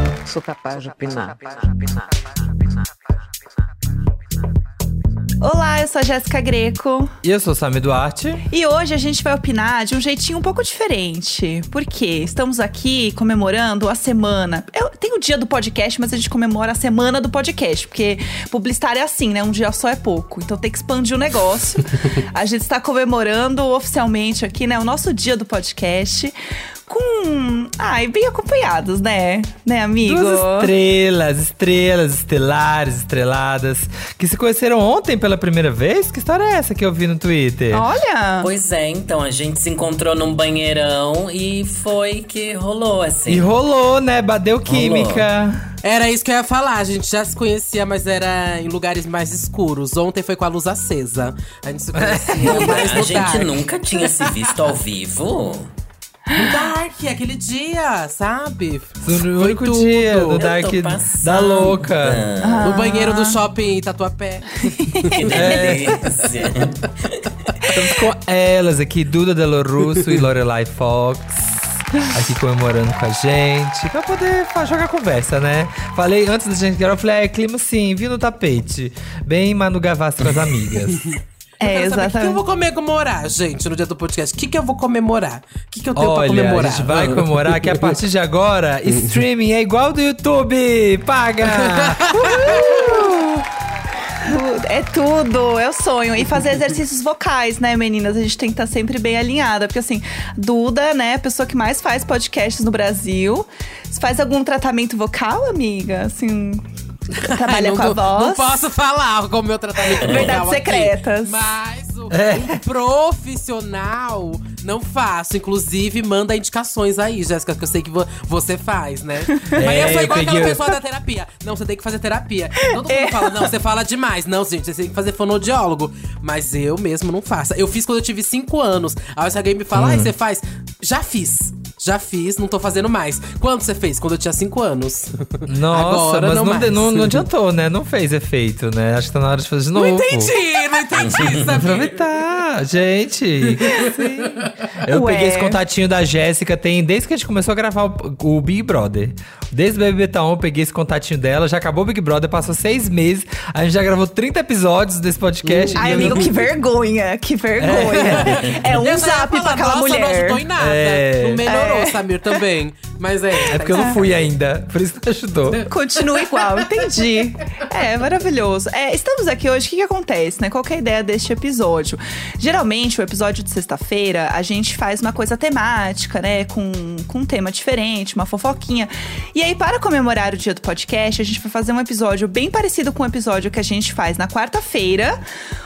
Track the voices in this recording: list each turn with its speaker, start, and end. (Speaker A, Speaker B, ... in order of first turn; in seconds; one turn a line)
Speaker A: 0.3-2.2
Speaker B: 5.4-7.1
Speaker C: 7.2-8.4
Speaker B: 8.5-26.3
Speaker B: 26.9-30.7
Speaker C: 30.0-37.9
Speaker B: 37.7-38.5
Speaker D: 38.4-43.5
Speaker C: 43.3-45.7
Speaker D: 44.7-45.2
Speaker E: 45.8-54.5
Speaker C: 52.0-53.0
Speaker D: 52.4-55.7
Speaker E: 56.3-60.4
Speaker C: 59.0-62.2
Speaker D: 60.4-62.8
Speaker B: 62.4-63.4
Speaker E: 62.6-65.2
Speaker B: 64.8-65.2
Speaker D: 65.1-67.3
Speaker C: 65.3-66.0
Speaker C: 67.7-81.1
Speaker B: 81.6-82.4
Speaker E: 81.6-87.9
Speaker C: 86.0-93.4
Speaker E: 88.9-89.2
Speaker E: 91.5-92.7
Speaker B: 92.2-93.2
Speaker B: 94.2-106.7
Speaker B: 107.2-108.7
Speaker E: 107.2-137.2
Speaker B: 109.8-111.5
Speaker C: 112.1-112.6
Speaker C: 119.5-120.7
Speaker B: 122.7-123.5
Speaker C: 129.7-130.1
Speaker C: 135.5-140.3
Speaker E: 139.8-142.0
Speaker D: 140.9-141.4
Speaker C: 141.5-156.3
Speaker E: 143.6-144.5
Speaker B: 144.9-145.6
Speaker E: 155.4-156.3
Speaker B: 155.8-160.4
Speaker C: 157.6-158.5
Speaker E: 158.0-164.1
Speaker C: 160.6-161.5
Speaker B: 161.5-162.0
Speaker C: 163.5-165.7
Speaker E: 165.5-167.2
Speaker B: 165.7-185.2